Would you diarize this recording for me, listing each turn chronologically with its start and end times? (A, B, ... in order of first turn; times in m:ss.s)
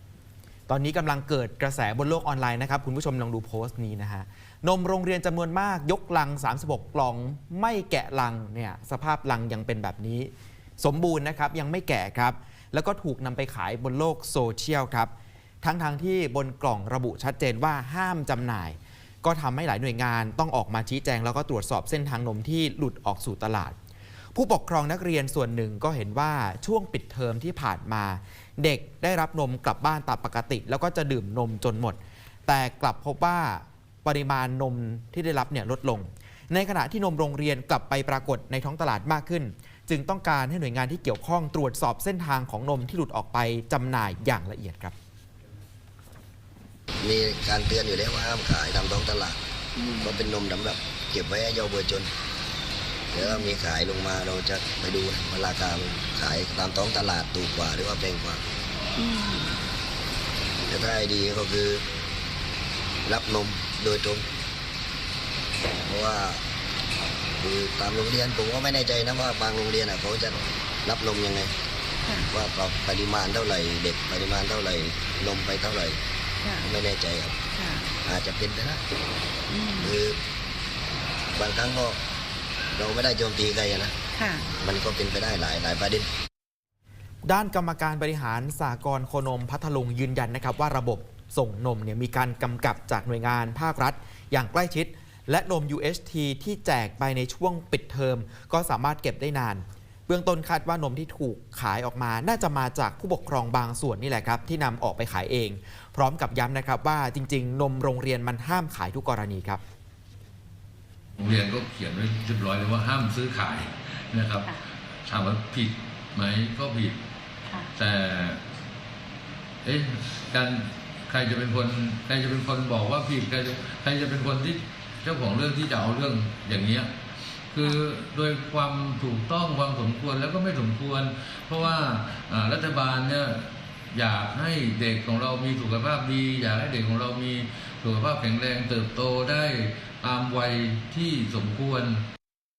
0:00.7-0:15.1 A
0:15.6-0:23.8 A
0:24.4-0:45.0 A
0:47.0-0:49.4 B
0:49.8-0:50.1 C
0:50.0-0:52.1 B
0:53.1-0:58.4 B
0:53.2-0:53.5 C
0:59.0-0:59.6 C
1:00.7-1:01.8 B
1:03.1-1:04.3 B
1:05.9-1:06.4 B
1:07.4-1:11.5 B
1:12.2-1:16.0 B
1:16.6-1:17.4 B
1:17.5-1:17.9 C
1:18.0-1:18.8 B
1:19.5-1:19.9 C
1:19.8-1:20.2 B
1:21.4-1:22.0 B
1:22.7-1:24.0 B
1:24.2-1:24.5 C
1:24.5-1:26.1 B
1:27.2-1:49.6 A
1:51.2-1:57.0 D
1:57.7-1:58.4 D
1:59.6-2:06.9 D
2:07.5-2:22.0 D